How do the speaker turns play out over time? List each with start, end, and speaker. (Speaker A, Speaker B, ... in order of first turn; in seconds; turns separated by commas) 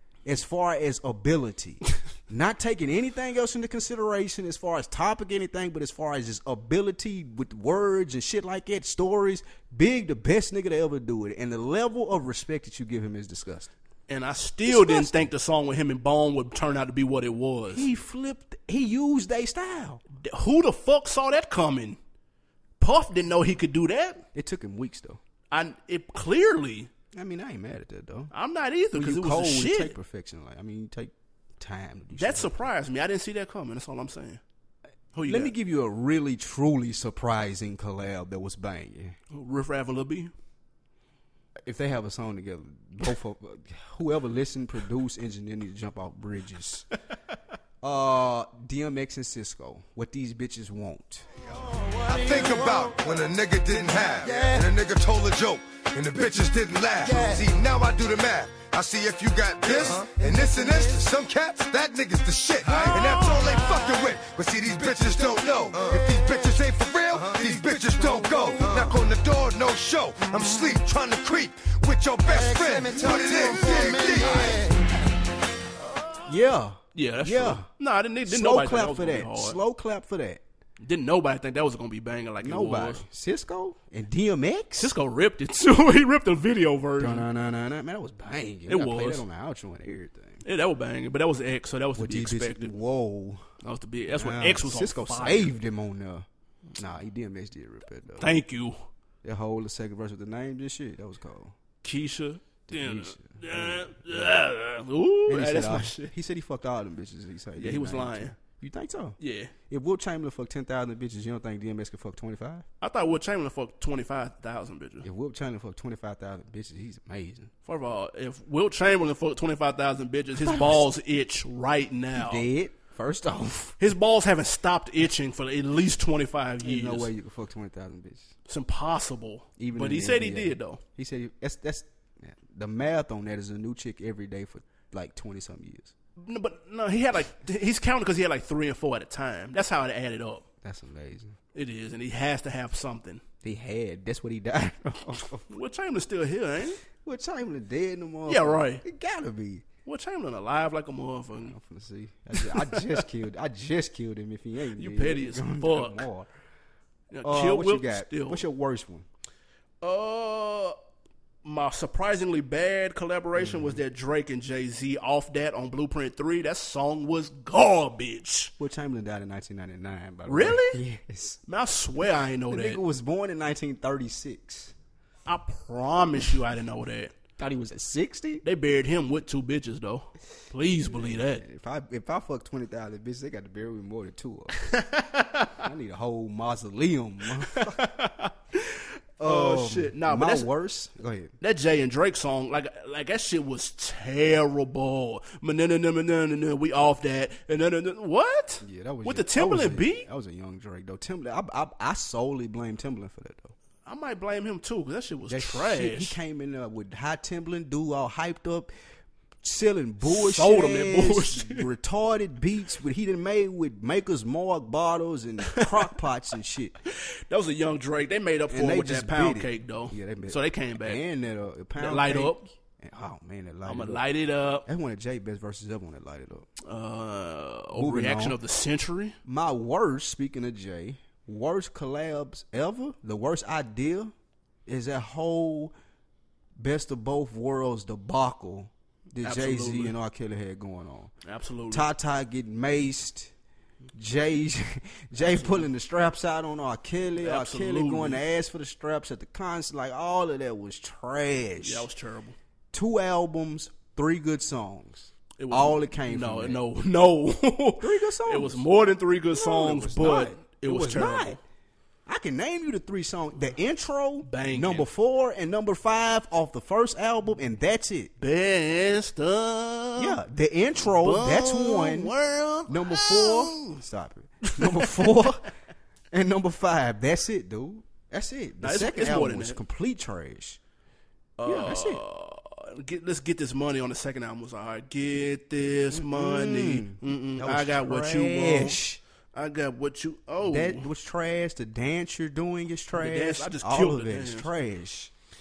Speaker A: 0.2-13.7, Speaker B: 14.1-17.9, Speaker A: 14.6-15.3, Speaker A: 17.7-20.0, Speaker B: 20.2-22.0, Speaker B: 22.8-24.2, Speaker A: 24.3-25.2, Speaker B: 25.5-26.9, Speaker A: 27.1-28.3, Speaker B: 28.3-29.9, Speaker A: 28.9-32.6, Speaker B: 32.1-34.4, Speaker B: 35.1-35.5, Speaker A: 35.2-39.2, Speaker B: 39.3-40.3, Speaker A: 41.6-46.9, Speaker A: 47.8-51.3, Speaker C: 52.1-74.7, Speaker A: 76.3-77.7, Speaker B: 76.9-79.6, Speaker A: 78.2-80.4, Speaker B: 80.8-83.0, Speaker A: 82.4-84.9, Speaker B: 84.8-87.3, Speaker A: 87.0-90.4, Speaker B: 88.7-89.2, Speaker B: 90.4-92.7, Speaker A: 92.0-93.4, Speaker B: 93.6-95.5, Speaker A: 94.1-98.4, Speaker B: 98.2-98.9, Speaker A: 99.2-101.5, Speaker B: 101.8-106.1, Speaker A: 102.7-104.3, Speaker A: 105.3-109.2, Speaker B: 107.6-108.3, Speaker B: 109.2-109.5, Speaker A: 109.7-112.6, Speaker B: 112.8-115.1, Speaker A: 115.0-117.5, Speaker B: 117.6-122.5, Speaker A: 120.4-120.8, Speaker A: 122.1-123.8, Speaker B: 123.8-127.1, Speaker A: 126.6-128.3, Speaker B: 128.5-130.8, Speaker A: 129.6-135.9, Speaker B: 136.2-140.4, Speaker A: 140.6-141.4, Speaker B: 141.5-143.2, Speaker A: 143.4-145.5, Speaker B: 145.5-146.8, Speaker A: 146.9-149.6, Speaker B: 148.3-148.8, Speaker B: 149.8-151.5, Speaker A: 151.4-156.3, Speaker B: 152.4-153.0, Speaker B: 154.8-156.1, Speaker B: 157.1-158.4, Speaker A: 157.2-159.1, Speaker B: 159.8-160.7, Speaker B: 161.4-168.5, Speaker A: 163.4-163.8, Speaker A: 168.6-171.4, Speaker B: 170.3-170.8, Speaker B: 171.4-172.8, Speaker A: 172.5-174.7, Speaker B: 175.3-177.1, Speaker A: 177.4-178.4, Speaker B: 178.4-181.4, Speaker A: 180.8-184.5, Speaker B: 184.6-185.6, Speaker A: 185.6-187.8, Speaker B: 187.5-190.5, Speaker A: 189.2-191.3, Speaker B: 191.4-200.1, Speaker A: 198.6-203.5, Speaker B: 203.8-206.2, Speaker A: 205.3-208.7, Speaker A: 209.4-216.8, Speaker B: 210.1-211.7, Speaker B: 215.6-215.9, Speaker B: 216.9-221.0, Speaker A: 218.5-224.1, Speaker B: 221.8-222.4, Speaker B: 223.7-224.7, Speaker A: 224.6-226.5, Speaker B: 226.6-229.2, Speaker A: 227.7-228.4, Speaker A: 229.3-234.1, Speaker A: 234.7-235.7, Speaker A: 236.6-241.1, Speaker B: 239.2-239.9, Speaker B: 241.2-241.9, Speaker A: 241.7-243.3, Speaker A: 243.9-251.9, Speaker B: 245.2-245.7, Speaker B: 247.2-248.2, Speaker B: 251.6-252.4, Speaker A: 252.7-256.6, Speaker B: 255.4-261.4, Speaker A: 257.8-258.6, Speaker A: 259.3-261.4, Speaker A: 262.1-268.1, Speaker B: 264.2-264.9, Speaker B: 268.2-270.2, Speaker A: 270.0-272.1, Speaker B: 271.0-273.8, Speaker A: 272.7-275.5, Speaker B: 274.4-275.3, Speaker A: 276.1-280.6, Speaker B: 278.6-279.6, Speaker B: 281.4-288.8, Speaker A: 281.4-282.0, Speaker A: 285.9-289.0, Speaker B: 289.3-290.9, Speaker A: 290.4-295.1, Speaker B: 292.9-294.5